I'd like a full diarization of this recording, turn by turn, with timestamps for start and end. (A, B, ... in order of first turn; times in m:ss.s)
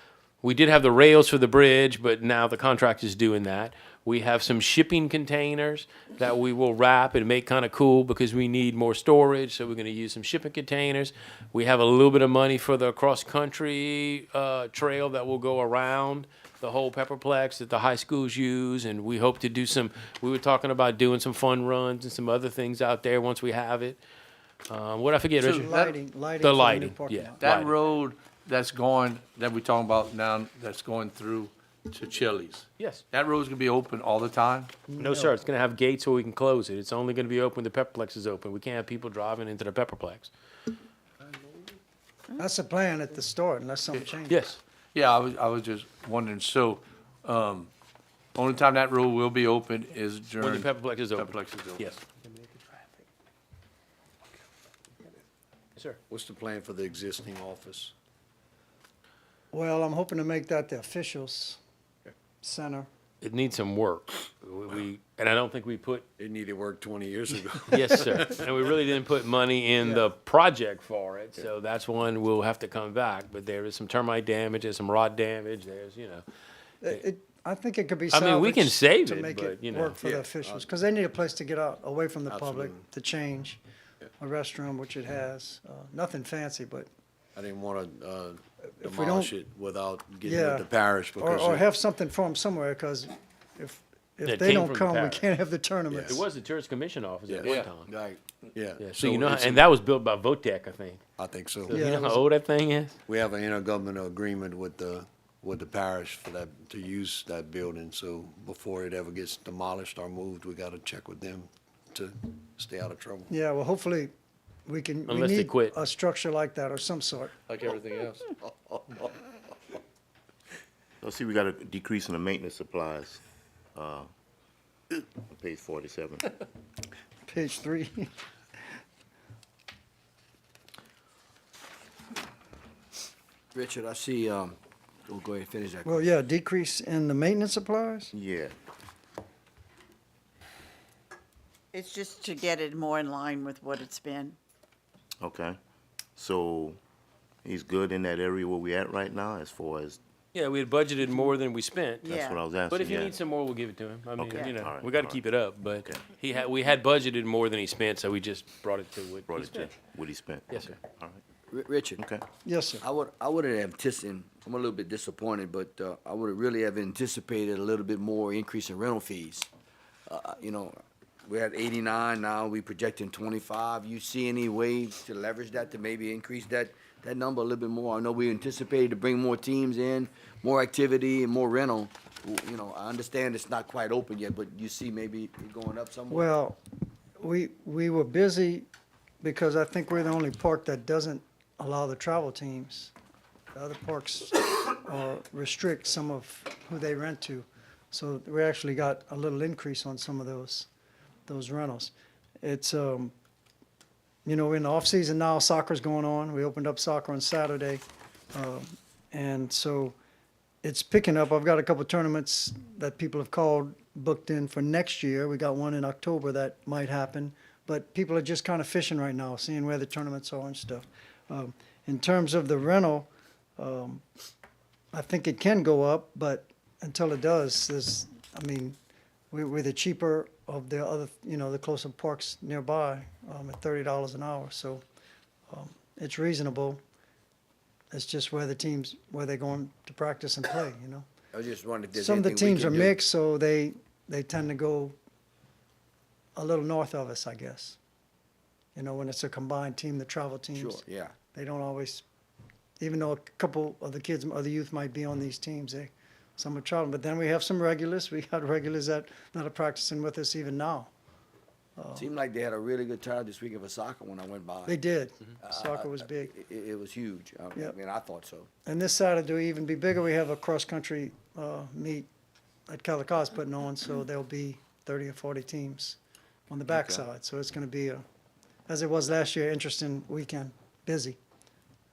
0:00.4-0:24.0 A
0:24.7-0:27.7 A
0:25.4-0:25.8 B
0:25.6-0:27.4 C
0:27.4-0:34.7 B
0:32.8-0:33.0 A
0:34.9-0:35.3 C
0:35.0-0:40.3 A
0:41.3-0:41.6 B
0:42.4-0:44.4 C
0:44.3-0:44.6 A
0:44.9-0:47.7 B
0:48.3-0:52.0 B
0:50.4-0:52.0 A
0:56.1-0:57.9 D
0:59.5-1:01.6 C
1:02.4-1:02.9 C
1:03.2-1:06.1 A
1:06.2-1:08.5 D
1:07.7-1:16.2 A
1:09.8-1:10.1 C
1:16.8-1:23.6 C
1:18.1-1:20.0 A
1:20.0-1:20.6 D
1:22.3-1:22.8 D
1:24.2-1:26.9 C
1:27.3-1:31.7 D
1:28.8-1:29.3 C
1:30.2-1:30.7 C
1:31.2-1:36.2 C
1:34.2-1:35.2 A
1:35.9-1:36.2 D
1:36.0-1:37.9 A
1:37.3-1:37.5 D
1:37.8-1:38.2 E
1:38.5-1:39.7 D
1:38.8-1:41.0 A
1:41.2-1:41.8 D
1:41.7-1:43.0 A
1:41.7-1:42.2 C
1:43.1-1:53.3 D
1:53.3-1:54.1 C
1:54.6-1:57.3 C
1:55.1-1:55.7 A
1:57.5-1:58.3 B
2:01.0-2:03.2 F
2:03.7-2:04.1 F
2:05.0-2:06.2 F
2:07.2-2:08.1 C
2:13.5-2:14.6 E
2:15.1-2:15.9 E
2:15.8-2:18.1 C
2:18.1-2:18.5 F
2:21.7-2:24.4 G
2:25.2-2:25.6 F
2:26.2-2:26.8 F
2:27.4-2:30.0 F
2:30.3-2:32.2 A
2:32.0-2:32.4 G
2:32.2-2:33.1 F
2:32.7-2:39.7 A
2:34.2-2:35.3 F
2:39.3-2:41.2 F
2:40.5-2:40.8 A
2:41.5-2:42.0 E
2:42.0-2:42.2 F
2:42.4-2:42.8 C
2:42.8-2:49.5 E
2:50.1-3:06.3 E
3:06.1-3:06.6 C
3:07.2-3:08.7 C
3:09.2-3:12.9 C
3:13.5-3:20.7 C
3:21.3-3:23.1 C
3:24.2-3:30.0 C
3:30.6-3:44.0 C
3:44.9-3:48.8 C
3:49.3-3:54.8 C
3:55.5-3:56.8 C
3:57.9-4:01.1 C
4:01.3-4:03.0 E
4:01.9-4:05.0 C
4:06.4-4:07.8 C
4:08.7-4:12.0 C
4:10.5-4:11.1 E
4:12.8-4:20.9 C
4:21.8-4:22.1 C
4:21.9-4:24.8 E
4:24.6-4:26.3 C
4:25.4-4:28.5 E
4:28.6-4:32.1 C
4:32.7-4:36.0 C
4:36.5-4:38.0 C
4:36.7-4:37.0 E
4:38.7-4:41.2 C